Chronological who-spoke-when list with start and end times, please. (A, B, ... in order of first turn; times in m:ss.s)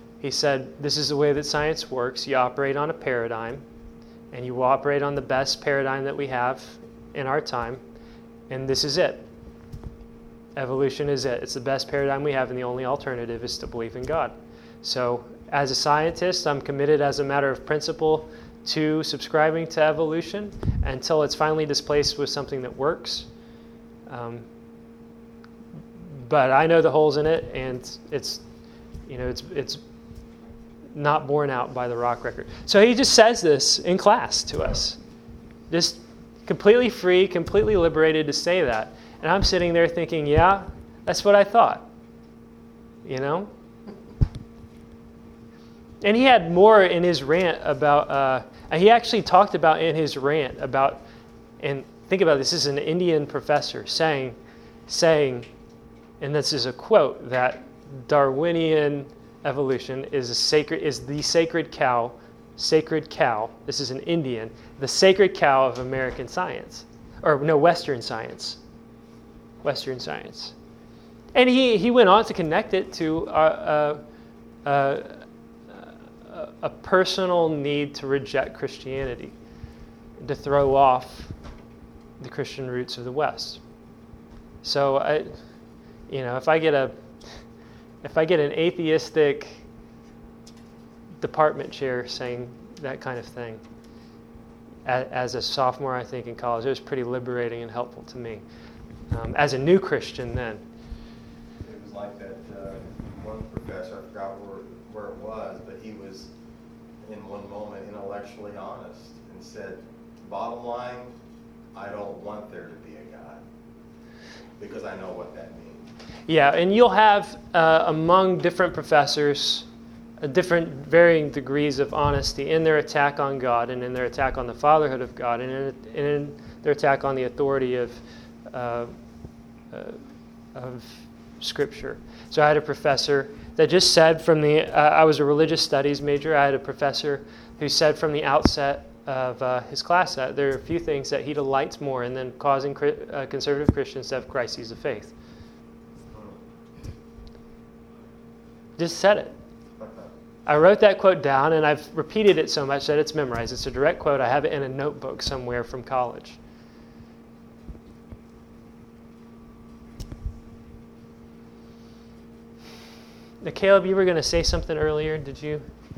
0:00.2-0:03.6 A
0:04.3-0:07.8 A
0:08.5-0:09.3 A
0:10.6-0:23.3 A
0:24.1-0:24.5 A
0:26.2-0:28.4 A
0:29.1-0:29.8 A
0:30.9-0:35.0 A
0:35.7-0:41.8 A
0:43.0-0:43.5 A
0:46.0-0:51.0 A
0:51.6-0:55.5 A
0:56.2-1:08.6 A
1:09.6-1:10.5 A
1:11.3-1:14.0 A
1:14.6-1:19.4 A
1:20.2-1:21.3 A
1:22.2-1:23.6 A
1:24.6-1:25.5 A
1:26.1-1:27.5 A
1:28.0-1:29.6 A
1:31.2-1:33.6 A
1:34.8-1:38.4 A
1:39.1-1:40.6 A
1:41.6-1:46.3 B
1:47.0-1:51.2 B
1:51.7-1:53.4 B
1:54.6-1:55.9 B
1:56.3-1:59.7 A
2:00.2-2:09.1 A
2:09.7-2:10.0 A
2:10.5-2:25.1 A
2:26.1-2:26.4 B
2:28.8-2:29.4 A
2:29.8-2:30.1 B
2:30.5-2:36.4 A
2:43.4-2:45.7 A